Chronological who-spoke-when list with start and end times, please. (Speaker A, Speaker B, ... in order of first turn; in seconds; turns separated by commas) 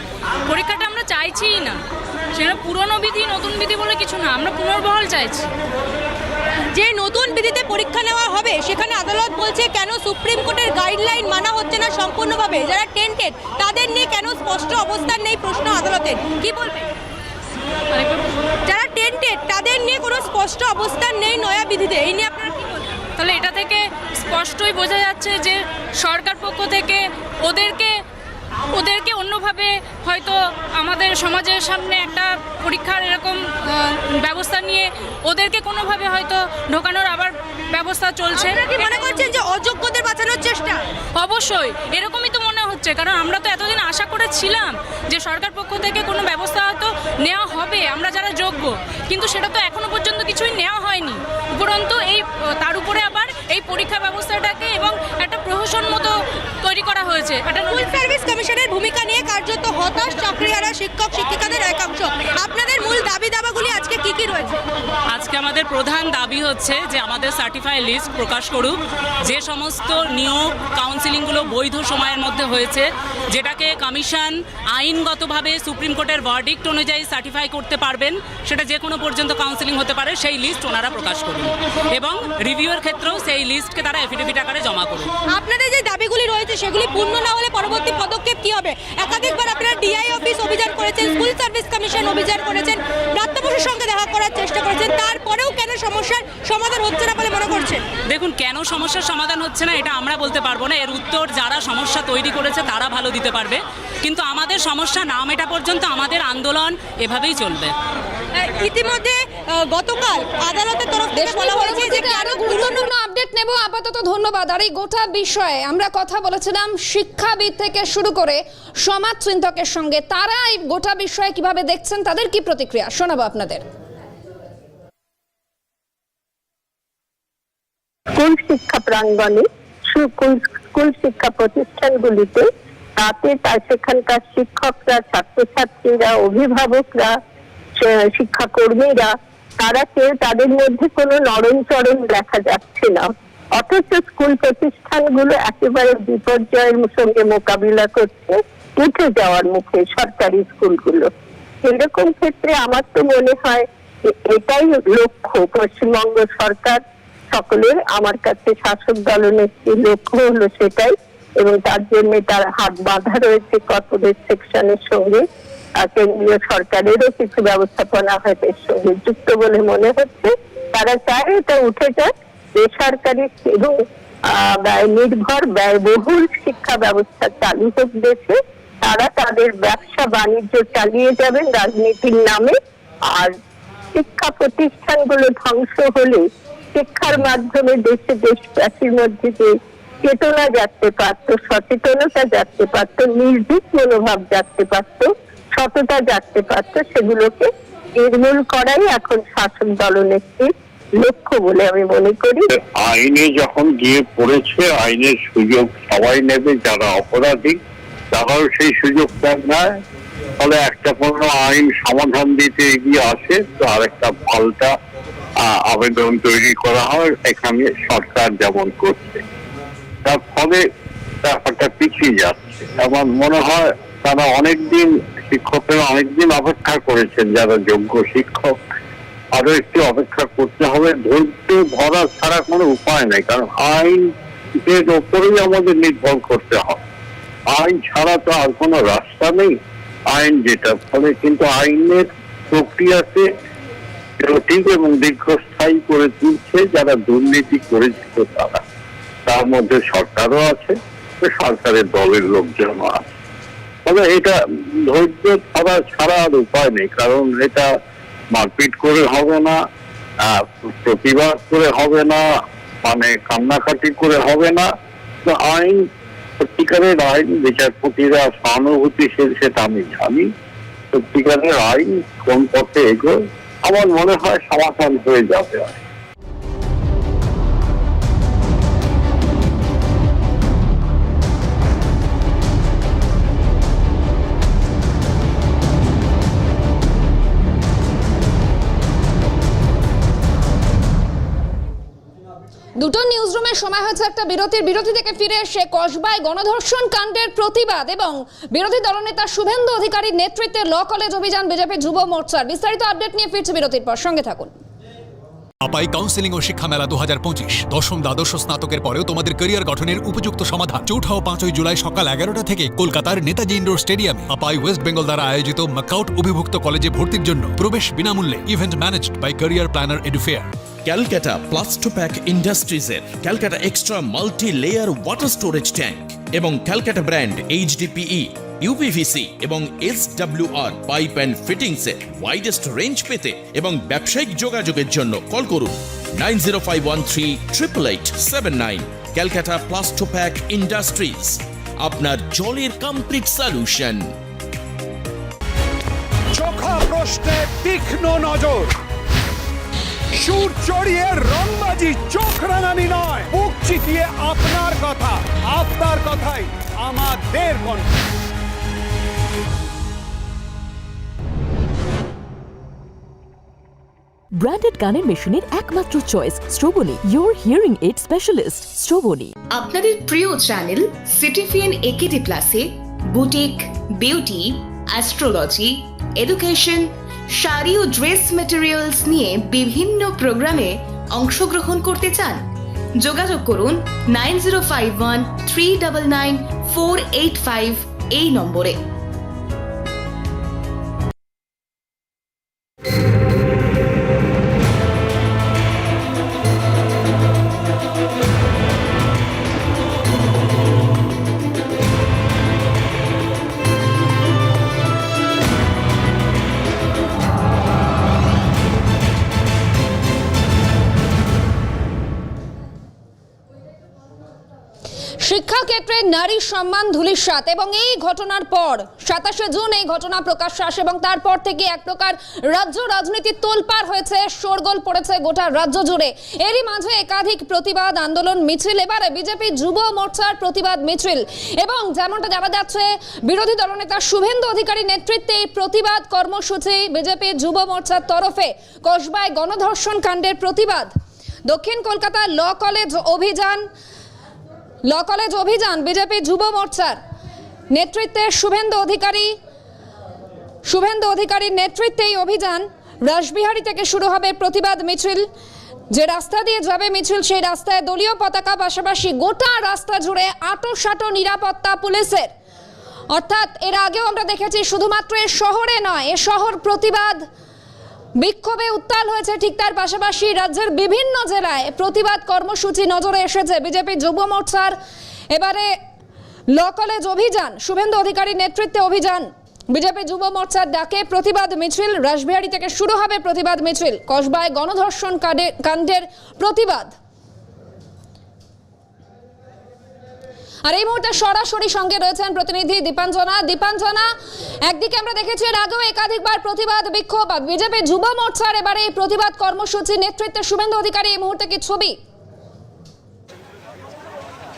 Speaker A: 0.5-1.8, Speaker A: 2.4-5.5, Speaker B: 6.7-16.8, Speaker B: 18.7-22.5, Speaker A: 23.2-28.0, Speaker A: 28.7-39.1, Speaker B: 38.3-40.8, Speaker A: 41.2-57.7, Speaker B: 57.7-64.6, Speaker C: 65.1-85.1, Speaker B: 85.3-97.9, Speaker C: 98.1-107.7, Speaker B: 108.4-112.8, Speaker D: 111.1-123.6, Speaker E: 128.2-137.2, Speaker E: 137.8-151.1, Speaker E: 151.6-156.8, Speaker E: 157.3-165.2, Speaker E: 165.8-182.6, Speaker E: 183.1-183.3, Speaker E: 183.9-202.5, Speaker F: 202.5-207.6, Speaker F: 208.1-209.8, Speaker F: 210.4-214.7, Speaker F: 215.4-219.2, Speaker F: 220.0-220.7, Speaker F: 221.2-228.7, Speaker F: 229.3-236.8, Speaker F: 237.5-239.6, Speaker F: 240.1-243.3, Speaker F: 244.2-248.6, Speaker F: 249.3-253.1, Speaker F: 253.8-257.7, Speaker F: 258.3-259.6, Speaker F: 260.2-262.3, Speaker F: 262.8-264.7, Speaker F: 265.2-265.8, Speaker F: 266.4-270.3, Speaker F: 270.9-275.8, Speaker D: 292.8-304.5, Speaker G: 305.6-320.5, Speaker H: 320.9-344.1, Speaker I: 346.3-348.7, Speaker I: 350.2-357.9, Speaker J: 364.4-369.3, Speaker K: 369.5-382.4, Speaker K: 383.0-388.8, Speaker D: 415.2-440.9, Speaker D: 441.5-443.6, Speaker D: 444.9-447.0, Speaker D: 447.7-449.4, Speaker D: 450.7-455.3, Speaker D: 455.9-462.3, Speaker D: 463.1-467.2, Speaker D: 468.2-474.8, Speaker D: 475.3-475.8, Speaker D: 476.5-486.9, Speaker D: 490.6-494.1, Speaker D: 494.7-502.0